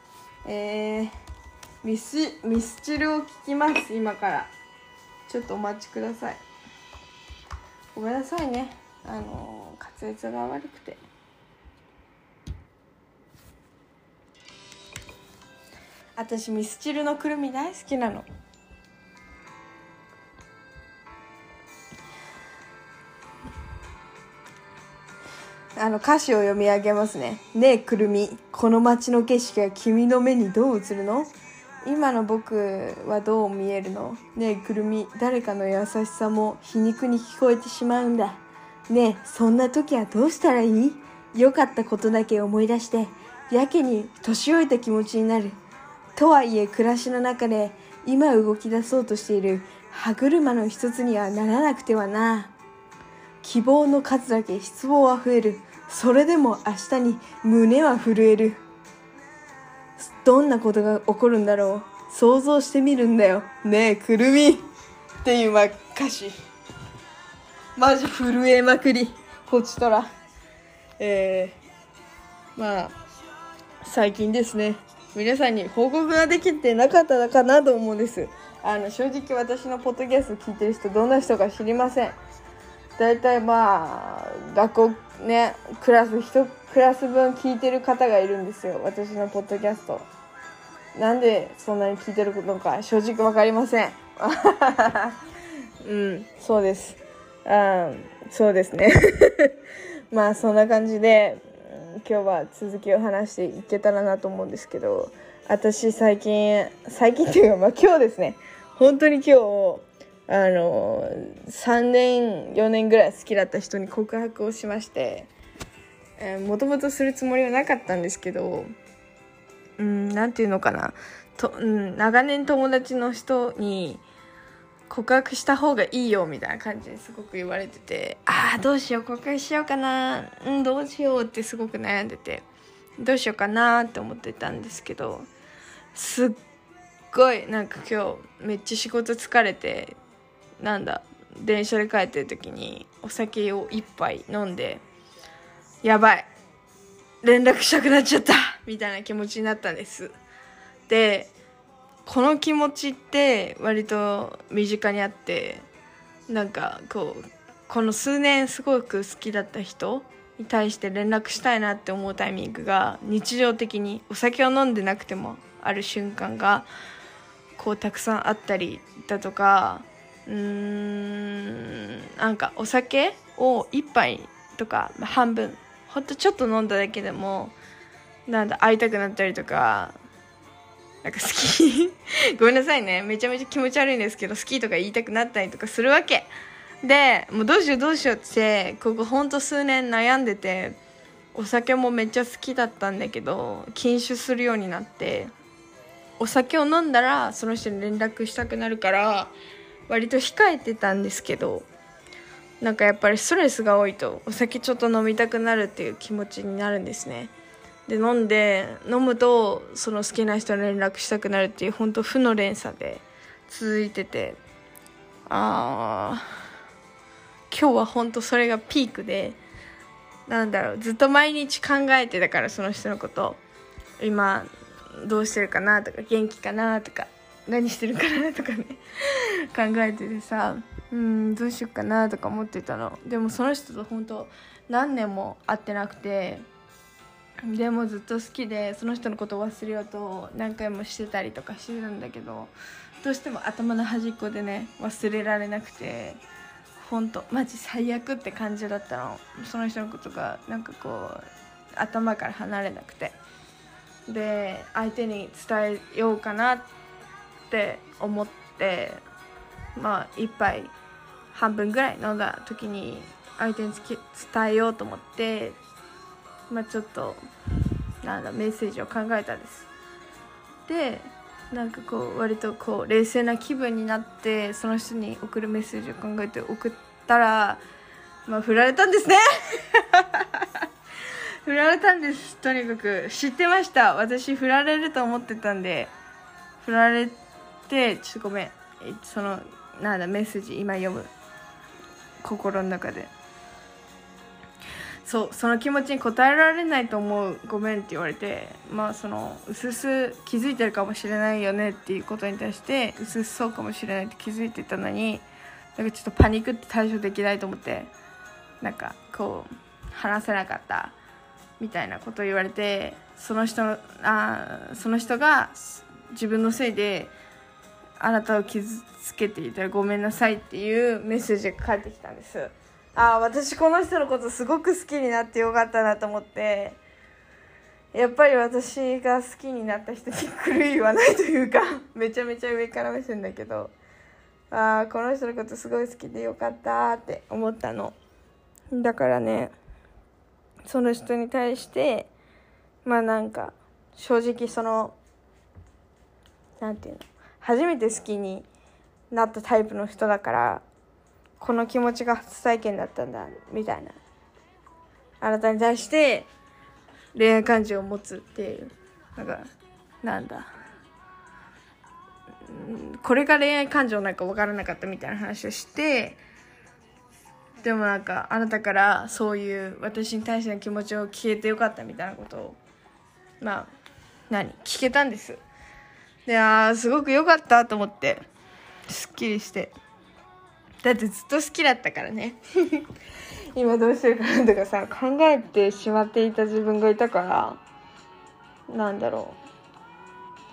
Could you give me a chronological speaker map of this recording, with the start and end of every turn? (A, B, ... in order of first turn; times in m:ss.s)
0:00.4-0:01.1 A
0:01.8-0:04.5 A
0:05.3-0:06.4 A
0:07.9-0:11.0 A
0:16.2-0:18.3 A
0:25.8-0:31.3 A
0:31.8-0:45.6 A
0:46.2-0:52.5 A
0:53.4-0:58.6 A
1:00.0-1:04.7 A
1:05.2-1:06.4 A
1:07.8-1:10.1 A
1:11.0-1:11.6 A
1:12.6-1:13.0 A
1:13.8-1:22.2 A
1:23.0-1:30.1 A
1:31.0-1:35.2 A
1:35.8-1:39.6 A
1:40.1-1:55.3 A
1:56.2-1:58.7 A
1:59.8-2:04.0 A
2:04.9-2:12.5 A
2:13.0-2:15.3 A
2:15.9-2:16.4 A
2:17.1-2:20.0 A
2:20.6-2:24.8 A
2:25.8-2:26.3 A
2:27.2-2:30.1 A
2:30.9-2:31.3 A
2:32.0-2:35.7 A
2:36.3-2:46.7 A
2:47.6-2:57.6 A
2:58.3-3:00.0 A
3:01.0-3:06.3 A
3:06.8-3:10.8 A
3:11.3-3:15.3 A
3:16.2-3:19.3 A
3:19.9-3:21.7 A
3:22.6-3:27.3 A
3:27.9-3:34.4 A
3:35.3-3:36.3 A
3:37.5-3:39.4 A
3:40.3-3:43.4 A
3:44.0-3:56.4 A
3:57.5-4:06.2 A
4:06.8-4:11.2 A
4:11.8-4:13.2 A
4:14.1-4:16.7 A
4:17.5-4:19.0 A
4:19.8-4:20.7 A
4:21.3-4:25.6 A
4:26.5-4:27.2 A
4:28.0-4:29.7 A
4:30.7-4:37.6 A
4:38.3-4:40.6 A
4:41.4-4:45.9 A
4:46.6-4:51.1 A
4:52.2-4:53.1 A
4:55.0-5:05.2 A
5:05.8-5:07.9 A
5:08.6-5:11.0 A
5:11.6-5:17.1 A
5:18.0-5:26.8 A
5:27.9-5:33.8 A
5:34.5-5:38.0 A
5:38.7-5:39.5 A
5:40.7-5:42.1 A
5:42.8-5:45.0 A
5:46.6-5:48.5 A
5:49.1-5:50.6 A
5:51.4-5:54.0 A
5:55.2-5:56.3 A
5:57.1-5:59.5 A
6:00.0-6:00.5 A
6:02.5-6:06.2 A
6:07.6-6:12.6 A
6:13.4-6:13.7 A
6:14.3-6:15.4 A
6:16.3-6:18.2 A
6:18.9-6:19.8 A
6:20.8-6:22.9 A
6:23.6-6:27.6 A
6:28.7-6:29.4 A